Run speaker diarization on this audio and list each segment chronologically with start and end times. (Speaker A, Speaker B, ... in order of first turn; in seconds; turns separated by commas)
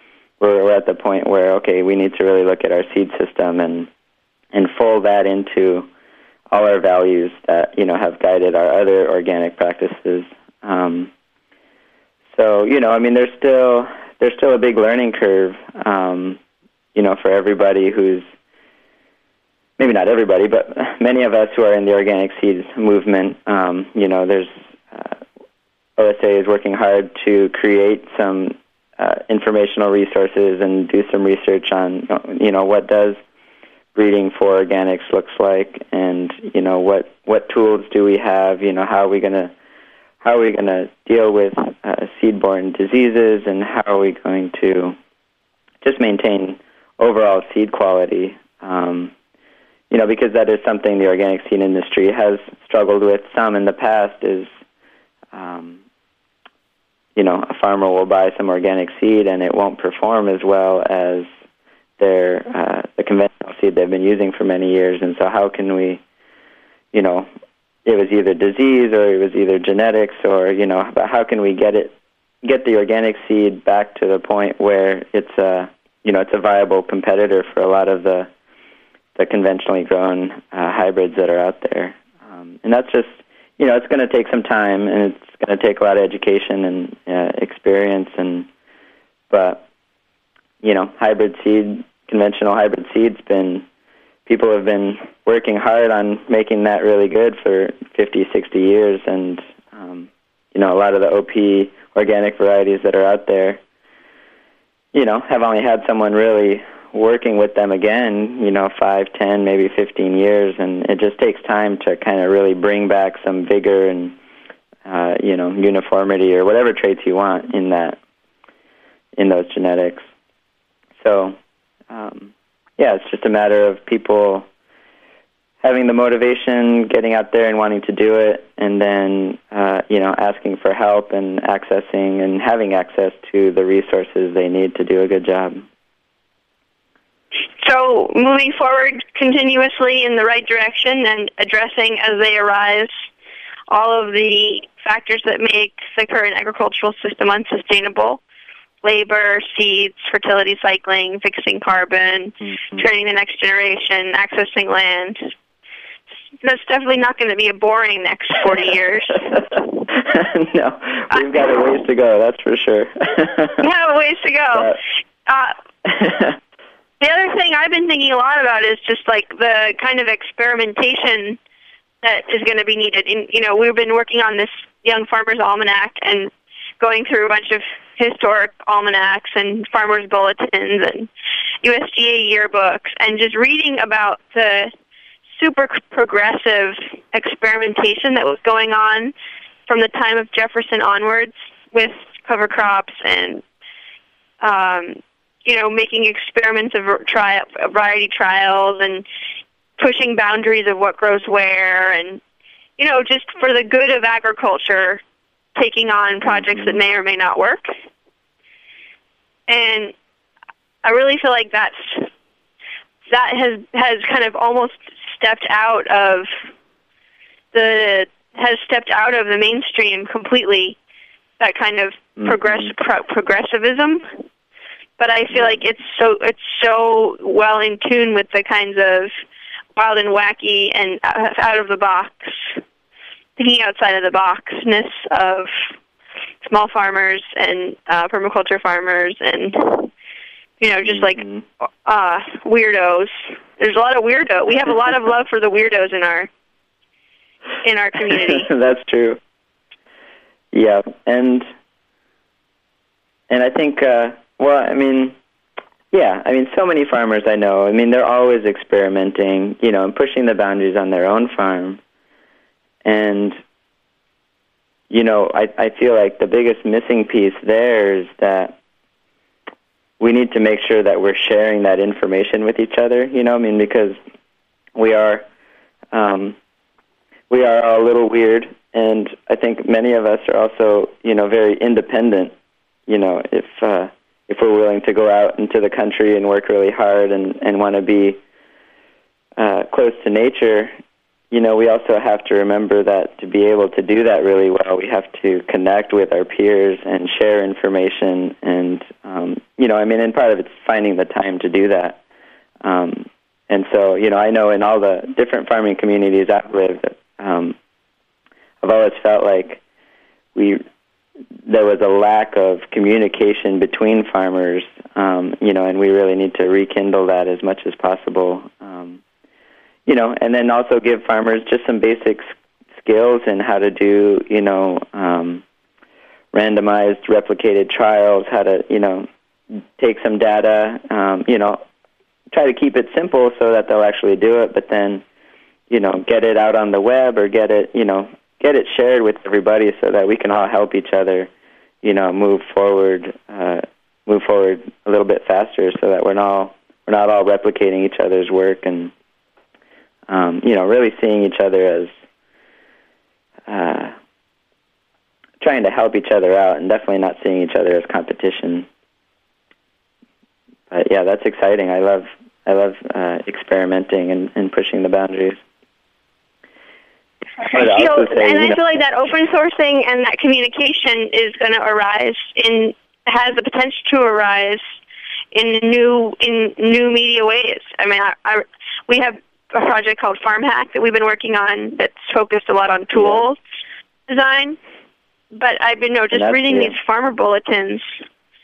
Speaker A: 0.4-3.9, Speaker A: 4.5-5.9, Speaker A: 6.5-11.1, Speaker A: 12.3-16.4, Speaker A: 16.9-18.2, Speaker A: 19.8-25.2, Speaker A: 26.0-33.2, Speaker A: 33.9-39.5, Speaker A: 40.2-45.0, Speaker A: 45.8-49.1, Speaker A: 49.9-54.5, Speaker A: 55.3-55.8, Speaker A: 57.2-61.3, Speaker A: 62.0-66.0, Speaker A: 66.9-67.3, Speaker A: 67.8-78.3, Speaker A: 79.2-88.5, Speaker A: 89.3-89.7, Speaker A: 90.6-93.7, Speaker A: 94.3-103.6, Speaker A: 104.9-114.2, Speaker A: 114.8-118.0, Speaker A: 119.2-120.1, Speaker A: 121.0-121.4, Speaker A: 121.9-124.5, Speaker A: 125.6-135.7, Speaker B: 137.6-142.9, Speaker B: 143.7-148.2, Speaker B: 148.8-155.2, Speaker A: 152.4-152.8, Speaker B: 156.4-159.8, Speaker A: 159.9-163.6, Speaker B: 163.6-165.6, Speaker A: 165.8-166.4, Speaker B: 167.0-171.4, Speaker B: 172.0-181.1, Speaker B: 181.6-184.7, Speaker B: 185.4-189.1, Speaker B: 189.7-193.4, Speaker B: 194.4-199.0, Speaker B: 199.8-202.2, Speaker B: 202.8-205.0, Speaker B: 205.6-207.7, Speaker A: 206.2-206.8, Speaker B: 209.5-209.9, Speaker B: 210.8-212.1, Speaker B: 213.1-216.3, Speaker B: 217.5-220.8, Speaker B: 221.4-224.1, Speaker A: 222.2-222.7, Speaker B: 225.0-229.1, Speaker A: 225.3-225.6, Speaker B: 229.8-232.6, Speaker B: 233.4-235.5, Speaker B: 236.4-239.9, Speaker B: 240.6-241.2, Speaker A: 240.8-241.4, Speaker B: 241.9-246.3, Speaker B: 247.6-248.5, Speaker A: 248.1-249.2, Speaker A: 250.5-251.5, Speaker A: 253.3-255.2, Speaker A: 255.9-261.8, Speaker A: 262.8-263.4, Speaker A: 264.9-268.6, Speaker A: 270.0-274.0, Speaker A: 274.8-275.3, Speaker A: 275.9-276.4, Speaker A: 277.3-282.3, Speaker A: 282.9-288.2, Speaker A: 289.4-290.7, Speaker A: 291.3-302.0, Speaker A: 302.6-307.6, Speaker A: 308.6-309.6, Speaker A: 310.4-310.6, Speaker A: 311.5-319.0, Speaker A: 319.9-325.4, Speaker A: 326.3-331.6, Speaker A: 332.3-335.0, Speaker A: 335.7-341.3, Speaker A: 341.8-348.9, Speaker A: 350.1-351.9, Speaker A: 353.5-354.0, Speaker A: 355.4-358.7, Speaker A: 360.7-365.4, Speaker B: 367.4-374.6, Speaker A: 367.5-368.6, Speaker B: 375.3-383.4, Speaker A: 382.9-383.2, Speaker B: 384.1-384.6, Speaker B: 385.3-387.9, Speaker A: 386.1-386.8